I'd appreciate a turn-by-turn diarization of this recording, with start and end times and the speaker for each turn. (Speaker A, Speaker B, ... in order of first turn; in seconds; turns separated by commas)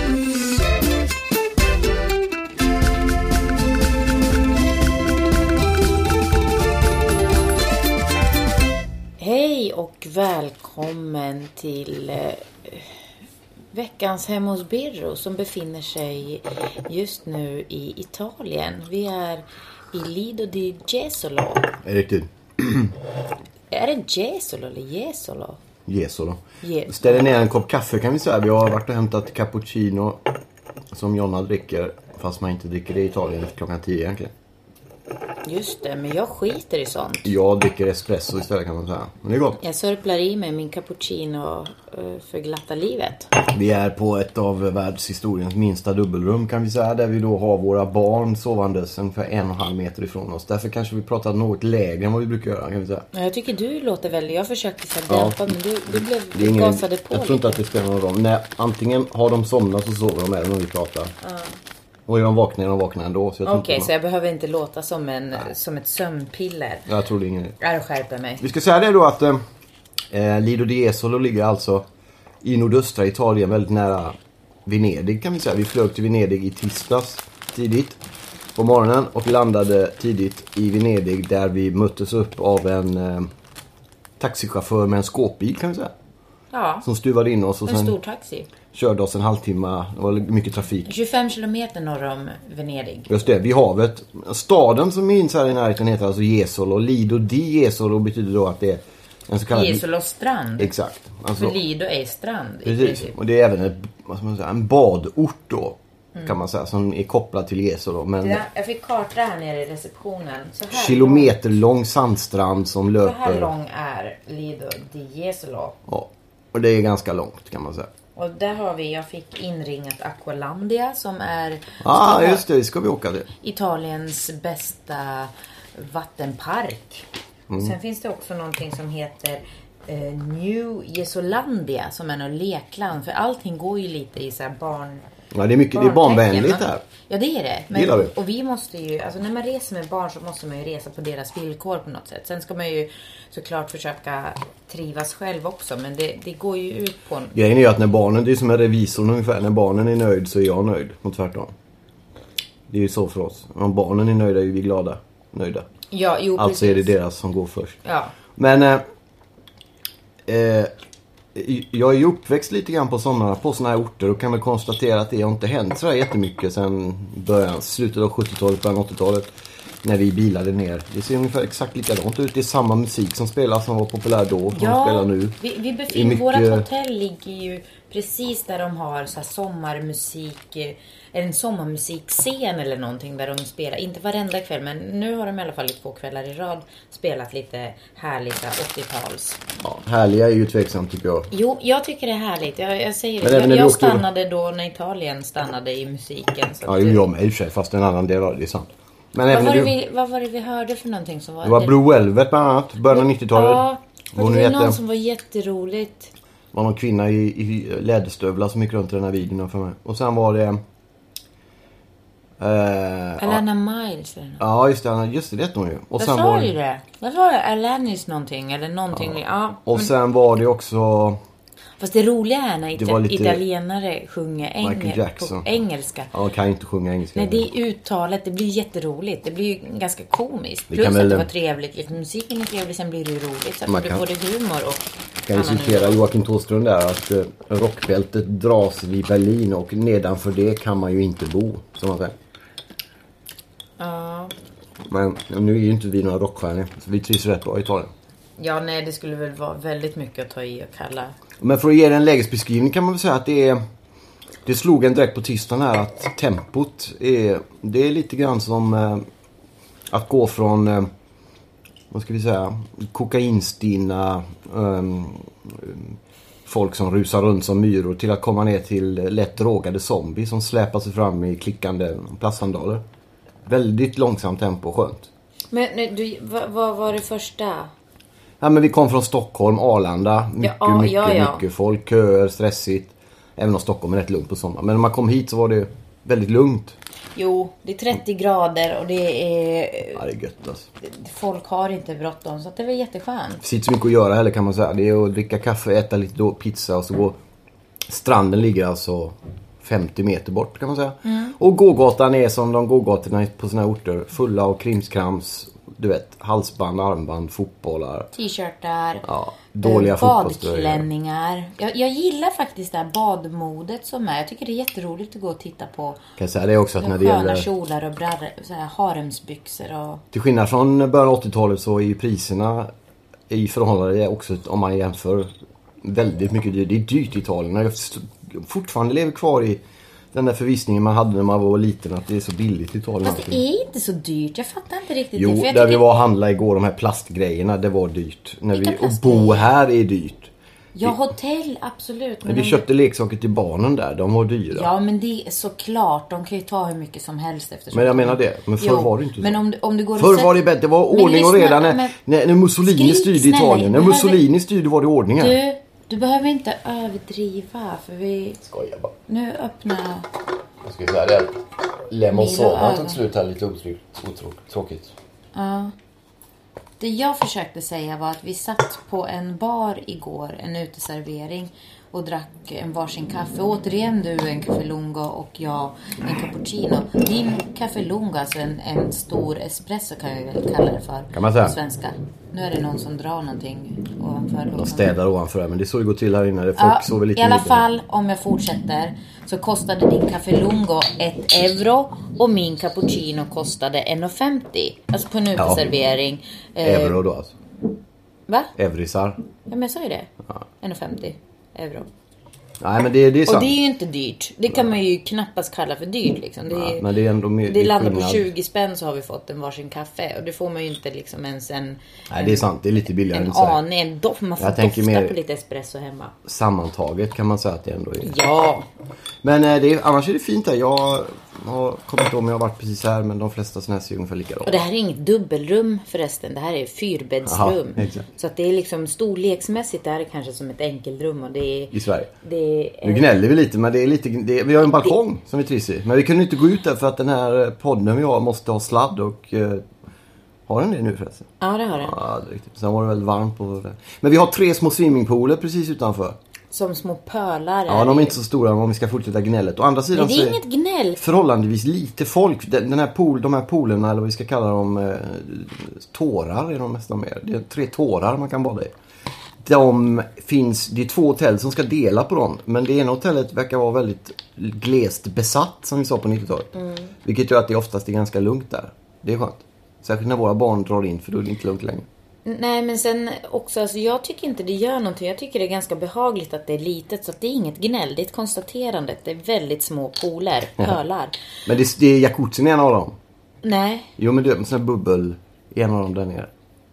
Speaker A: 9.2-12.9, Speaker A: 13.7-21.7, Speaker B: 21.8-22.9, Speaker A: 23.7-25.6, Speaker B: 25.9-30.3, Speaker A: 26.6-27.3, Speaker B: 30.9-34.3, Speaker A: 35.4-37.3, Speaker B: 37.2-39.6, Speaker A: 39.6-43.3, Speaker B: 43.5-53.0, Speaker A: 53.1-57.6, Speaker B: 55.1-55.5, Speaker B: 56.3-61.1, Speaker A: 61.2-61.5, Speaker B: 62.1-63.9, Speaker A: 63.4-66.9, Speaker B: 66.9-67.5, Speaker A: 67.6-68.4, Speaker B: 68.4-69.4, Speaker B: 70.1-71.8, Speaker B: 72.4-78.0, Speaker B: 78.5-83.3, Speaker B: 84.2-85.9, Speaker A: 86.5-86.8, Speaker B: 86.8-87.9, Speaker A: 87.7-88.5, Speaker B: 88.7-90.9, Speaker A: 90.8-93.1, Speaker B: 93.1-99.8, Speaker A: 99.5-100.7, Speaker B: 100.6-101.6, Speaker A: 101.4-103.1, Speaker B: 102.6-108.4, Speaker A: 108.2-111.3, Speaker B: 110.7-113.5, Speaker A: 113.0-115.8, Speaker B: 115.9-117.9, Speaker A: 118.2-122.4, Speaker B: 121.8-123.3, Speaker A: 123.4-135.0, Speaker B: 127.5-127.7, Speaker B: 135.3-136.8, Speaker A: 135.7-147.3, Speaker B: 137.7-138.1, Speaker B: 147.3-151.5, Speaker B: 152.7-155.7, Speaker A: 155.9-156.9, Speaker B: 156.4-157.8, Speaker A: 157.8-158.1, Speaker B: 158.3-158.8, Speaker B: 160.3-160.7, Speaker B: 161.3-169.3, Speaker B: 169.8-175.4, Speaker A: 174.5-189.4, Speaker B: 175.9-176.6, Speaker B: 189.6-191.3, Speaker A: 191.3-197.0, Speaker B: 193.2-194.0, Speaker B: 196.6-199.7, Speaker A: 199.3-201.8, Speaker B: 201.4-204.8, Speaker A: 202.9-206.1, Speaker B: 206.5-210.6, Speaker B: 212.4-213.4, Speaker A: 213.2-214.4, Speaker B: 214.4-216.5, Speaker A: 216.0-219.9, Speaker B: 218.9-221.2, Speaker A: 221.8-226.1, Speaker B: 222.8-223.4, Speaker B: 224.6-225.5, Speaker B: 226.1-227.5, Speaker A: 227.1-236.1, Speaker B: 230.7-231.3, Speaker B: 233.7-234.0, Speaker B: 235.2-242.1, Speaker A: 243.8-244.3, Speaker B: 244.9-247.9, Speaker A: 248.4-251.1, Speaker B: 251.4-253.6, Speaker B: 254.4-259.0, Speaker B: 259.9-260.9, Speaker B: 261.9-272.8, Speaker B: 273.5-275.1, Speaker A: 275.5-277.7, Speaker B: 278.4-286.8, Speaker A: 280.4-281.4, Speaker A: 287.1-290.0, Speaker B: 289.9-290.7, Speaker A: 290.8-293.4, Speaker B: 293.4-297.2, Speaker B: 297.9-308.1, Speaker A: 301.0-301.3, Speaker A: 308.1-309.1, Speaker B: 309.0-310.9, Speaker A: 309.6-316.0, Speaker B: 316.2-317.4, Speaker A: 316.8-320.0, Speaker B: 320.1-322.7, Speaker B: 323.3-325.3, Speaker B: 325.8-329.6, Speaker B: 330.1-333.4, Speaker A: 333.0-335.8, Speaker B: 335.1-340.3, Speaker A: 338.5-339.5, Speaker A: 340.7-342.6, Speaker B: 342.2-344.7, Speaker A: 344.5-350.4, Speaker B: 347.7-349.4, Speaker B: 349.9-355.4, Speaker A: 350.9-351.9, Speaker A: 352.6-354.2, Speaker A: 355.2-358.4, Speaker B: 358.4-358.9, Speaker A: 359.1-360.1, Speaker B: 360.6-364.9, Speaker A: 362.1-363.0, Speaker A: 365.3-365.7, Speaker A: 366.8-384.9, Speaker B: 381.1-381.6, Speaker B: 384.5-387.6, Speaker A: 386.6-397.0, Speaker B: 395.4-395.7, Speaker B: 396.6-397.3, Speaker A: 398.3-398.5, Speaker B: 398.6-399.2, Speaker A: 399.5-400.1, Speaker A: 400.6-401.9, Speaker B: 402.6-403.6, Speaker A: 403.2-406.9, Speaker B: 406.5-408.3, Speaker A: 407.5-412.5, Speaker B: 412.1-413.6, Speaker A: 413.1-416.1, Speaker B: 414.4-415.1, Speaker B: 416.2-418.1, Speaker A: 418.0-418.7, Speaker B: 419.2-424.6, Speaker A: 424.4-433.1, Speaker B: 427.2-428.1, Speaker B: 431.7-432.1, Speaker B: 432.8-439.6, Speaker B: 440.5-441.3, Speaker A: 441.4-442.0, Speaker B: 441.8-446.1, Speaker A: 446.5-448.2, Speaker B: 447.7-450.4, Speaker A: 449.9-451.0, Speaker B: 451.0-458.7, Speaker B: 459.4-466.5, Speaker A: 466.5-466.9, Speaker B: 467.0-471.9, Speaker A: 472.2-481.1, Speaker B: 481.4-482.9, Speaker A: 483.4-483.9, Speaker B: 484.0-486.3